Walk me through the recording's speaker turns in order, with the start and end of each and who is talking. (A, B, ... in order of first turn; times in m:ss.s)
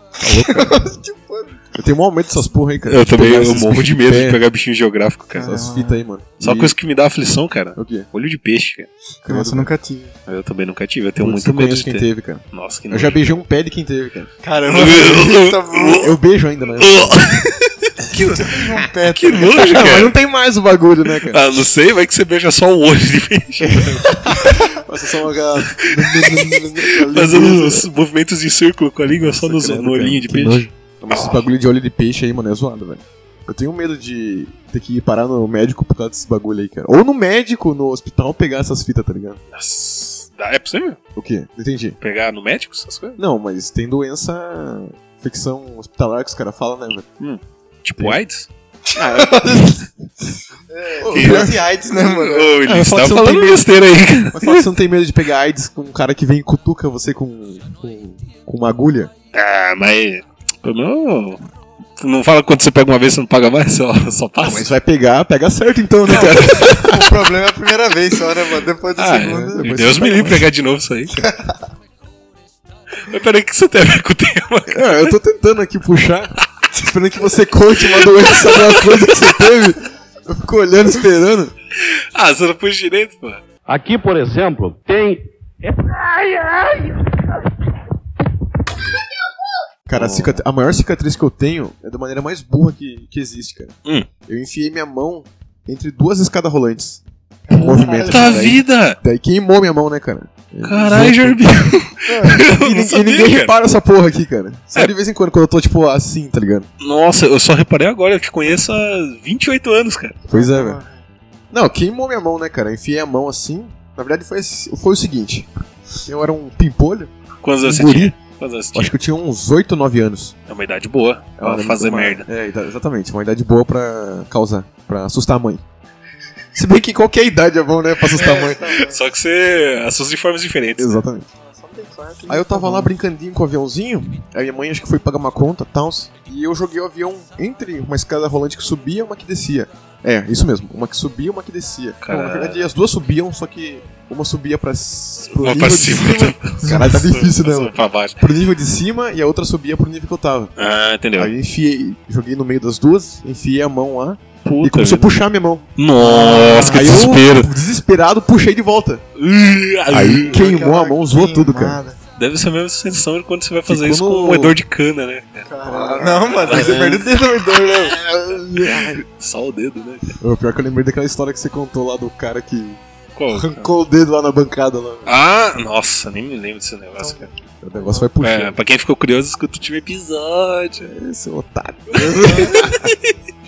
0:00.2-0:00.8 A
0:00.2-0:01.7 B
0:01.8-0:04.4 A
0:02.9-0:05.5 C
0:05.4-0:06.8 A
0:05.4-0:06.0 B
0:06.4-0:08.9 C
0:07.8-0:08.1 A
0:09.2-0:09.7 A
0:09.3-0:10.1 B
0:10.3-0:13.2 C
0:11.2-0:14.3 A
0:14.4-0:16.1 B
0:14.7-0:16.2 C
0:16.0-0:17.2 A
0:16.8-0:17.9 C
0:18.0-0:19.7 B
0:19.2-0:20.2 C
0:19.4-0:21.4 A
0:21.2-0:24.3 C
0:23.6-0:27.9 A
0:25.7-0:31.4 C
0:27.1-0:27.5 B
0:29.2-0:39.4 A
0:39.5-0:41.0 C
0:41.2-0:42.0 A
0:42.0-0:43.2 C
0:43.2-0:47.1 A
0:47.2-0:48.5 C
0:48.9-0:49.4 B
0:48.9-0:50.3 A
0:50.7-0:52.6 B
0:51.0-0:51.6 A
0:51.1-0:54.6 C
0:52.6-0:53.6 A
0:54.3-0:59.1 A
0:59.3-1:01.4 C
1:02.0-1:04.7 C
1:04.4-1:07.2 A
1:06.1-1:09.7 B
1:06.2-1:06.7 C
1:09.0-1:11.2 C
1:09.5-1:10.5 A
1:13.1-1:15.2 C
1:14.7-1:21.5 A
1:17.9-1:19.4 C
1:21.8-1:23.4 C
1:23.7-1:27.4 D
1:29.9-1:33.7 A
1:29.9-1:30.4 C
1:34.3-1:46.7 A
1:37.5-1:38.5 B
1:38.1-1:39.0 C
1:40.6-1:43.6 C
1:42.1-1:42.4 B
1:46.8-1:50.2 C
1:50.3-1:50.8 A
1:50.3-1:51.0 B
1:51.5-1:58.2 A
1:57.4-1:58.9 C
1:58.7-2:00.4 A
2:00.5-2:02.3 C
2:01.4-2:05.6 A
2:06.6-2:08.8 A
2:08.1-2:09.0 B
2:08.3-2:11.0 C
2:10.8-2:11.3 A
2:11.4-2:12.9 B
2:12.3-2:30.5 A
2:22.0-2:22.7 C
2:25.3-2:28.2 C
2:30.6-2:31.3 C
2:31.2-2:35.7 A
2:34.4-2:35.2 C
2:35.8-2:37.5 C
2:36.0-2:36.9 B
2:36.5-2:39.0 A
2:39.2-2:40.4 C
2:39.9-2:41.8 A
2:40.3-2:42.0 B
2:42.2-2:47.0 C
2:43.7-2:44.6 A
2:45.5-2:48.0 B
2:45.7-2:47.1 A
2:47.7-2:49.0 A
2:48.6-2:50.1 C
2:50.2-2:52.8 A
2:53.2-2:53.7 C
2:53.3-2:55.2 A
2:55.1-2:57.3 C
2:57.0-2:58.1 B
2:57.6-2:58.6 A
2:58.2-3:00.9 C
3:00.8-3:02.9 A
3:02.0-3:03.1 C
3:02.2-3:02.6 B